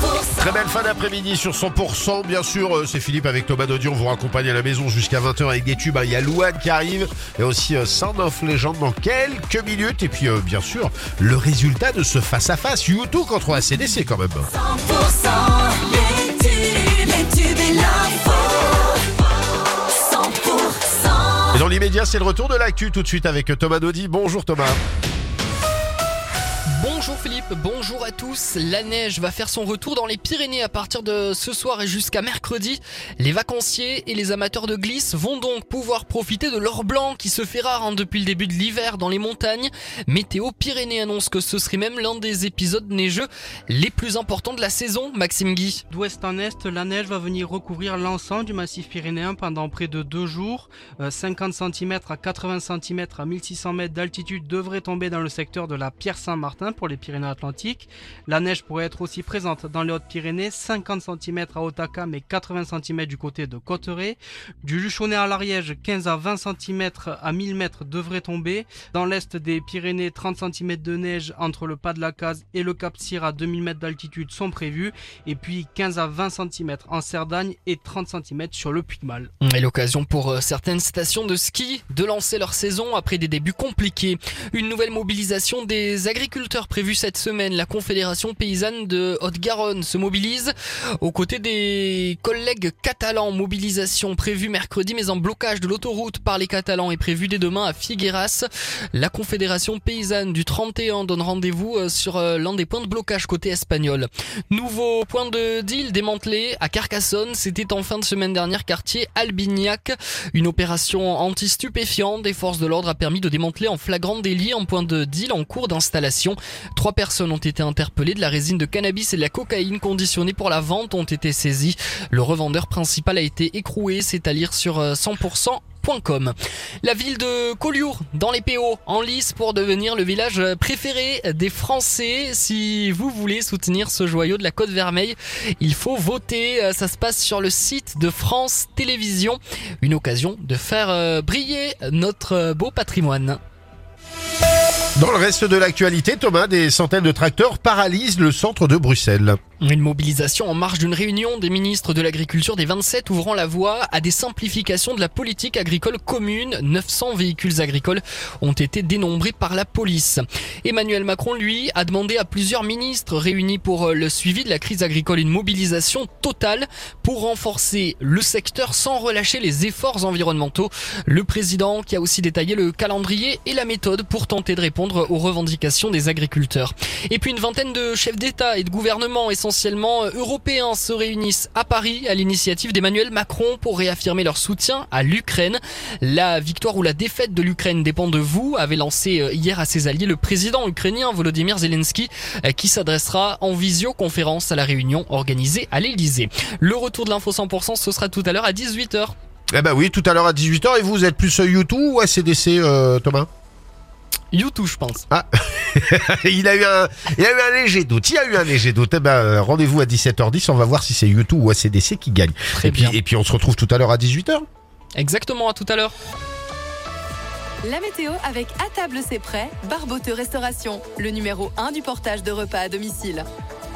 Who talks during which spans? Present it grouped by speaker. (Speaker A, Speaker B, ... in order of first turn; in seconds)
Speaker A: 0.4-14.5, 21.5-24.8, 145.0-149.4, 199.5-203.3, 205.1-214.4
Speaker B: 14.8-16.5, 17.2-18.8, 20.1-20.9
Speaker C: 16.5-17.3, 26.7-45.8, 79.4-143.4, 149.6-199.2, 204.3-205.1, 212.5-213.0, 214.9-215.9
Speaker D: 45.9-79.3
Speaker E: 217.6-223.2